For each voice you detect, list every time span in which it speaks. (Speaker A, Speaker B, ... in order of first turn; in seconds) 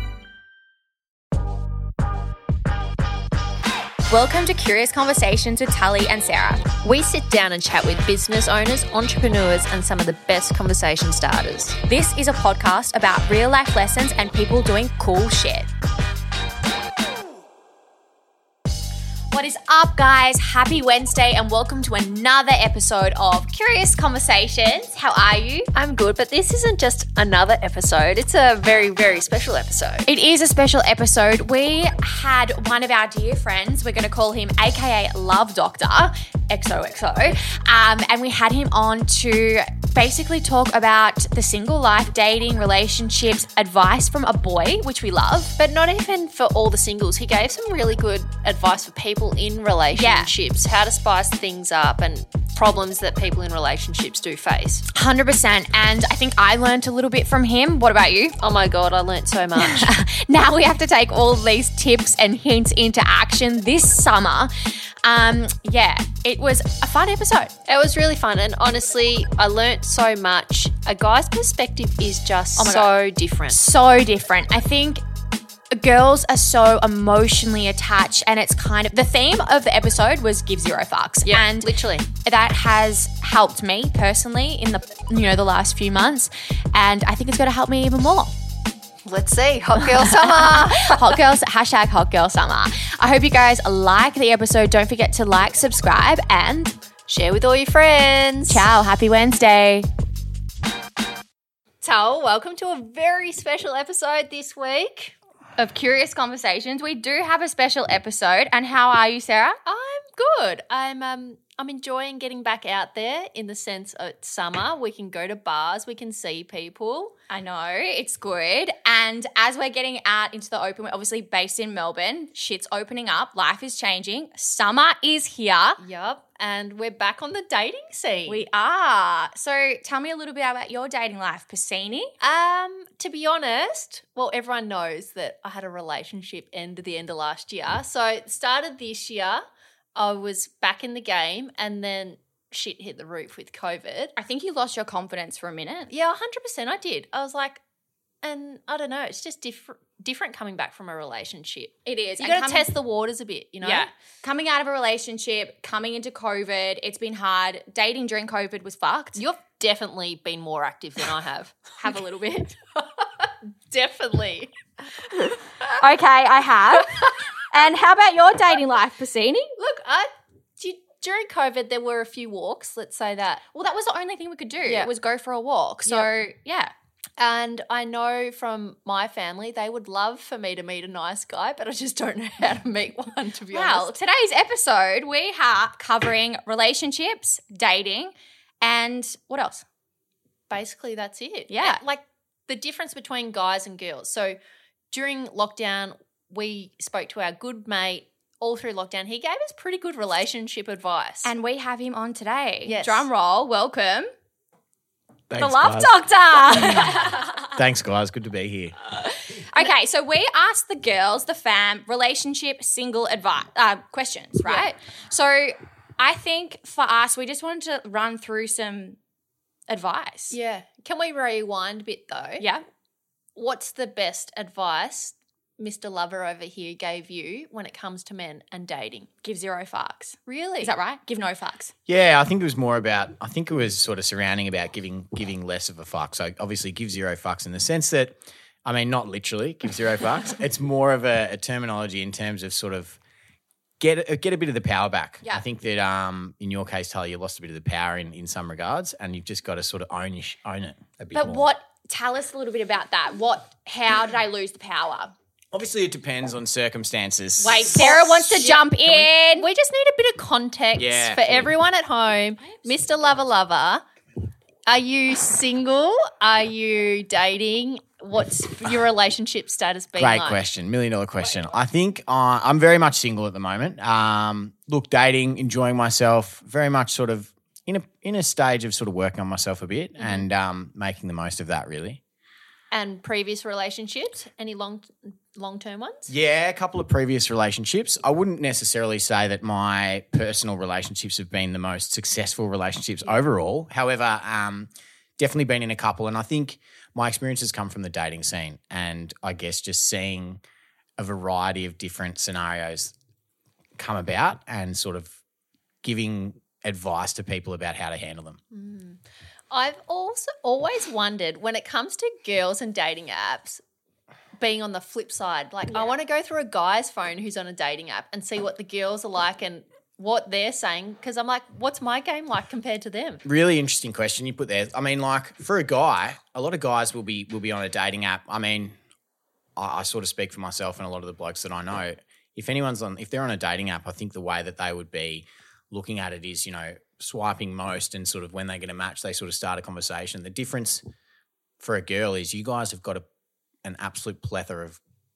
Speaker A: 4.1-6.7, 11.8-15.7, 19.3-25.7, 30.1-45.5, 49.9-50.3, 54.9-58.4, 59.5-67.5, 72.6-72.9, 73.5-75.0, 75.7-88.3, 90.0-96.8, 98.5-99.9, 105.6-109.6, 117.3-125.8, 128.3-132.1, 144.2-145.9, 151.8-152.7, 153.6-159.2, 161.8-162.6, 165.1-169.5, 173.5-176.7, 183.5-189.6, 191.5-191.8, 201.2-204.1, 205.3-207.5, 208.9-219.0, 219.7-220.4, 222.4-222.6, 229.2-231.7, 251.1-255.1, 257.4-259.5
Speaker B: 6.8-11.8, 25.7-30.1, 45.6-54.9, 58.4-59.9, 67.7-73.6, 81.2-82.1, 89.0-91.2, 97.1-98.7, 101.8-105.1, 109.6-117.1, 125.8-128.4, 132.2-144.1, 145.9-147.6, 148.2-153.9, 159.2-161.7, 163.7-164.5, 169.6-173.4, 174.6-174.9, 175.8-176.1, 177.2-183.9, 190.5-194.4, 194.9-201.3, 202.6-203.1, 214.4-214.7, 220.3-222.4, 223.3-229.1, 230.3-230.7, 257.7-263.8, 264.6-270.4, 280.0-280.2, 282.7-286.1, 308.5-309.0, 309.5-313.6, 314.4-323.2
Speaker C: 205.3-205.9, 206.5-207.0, 207.5-208.8, 231.8-243.0, 243.8-251.5, 255.5-257.7, 260.7-261.5, 269.9-282.0, 286.1-300.4, 301.0-302.9, 303.8-305.2, 305.8-308.4, 323.2-328.7, 329.6-340.8, 341.6-343.0, 343.6-344.8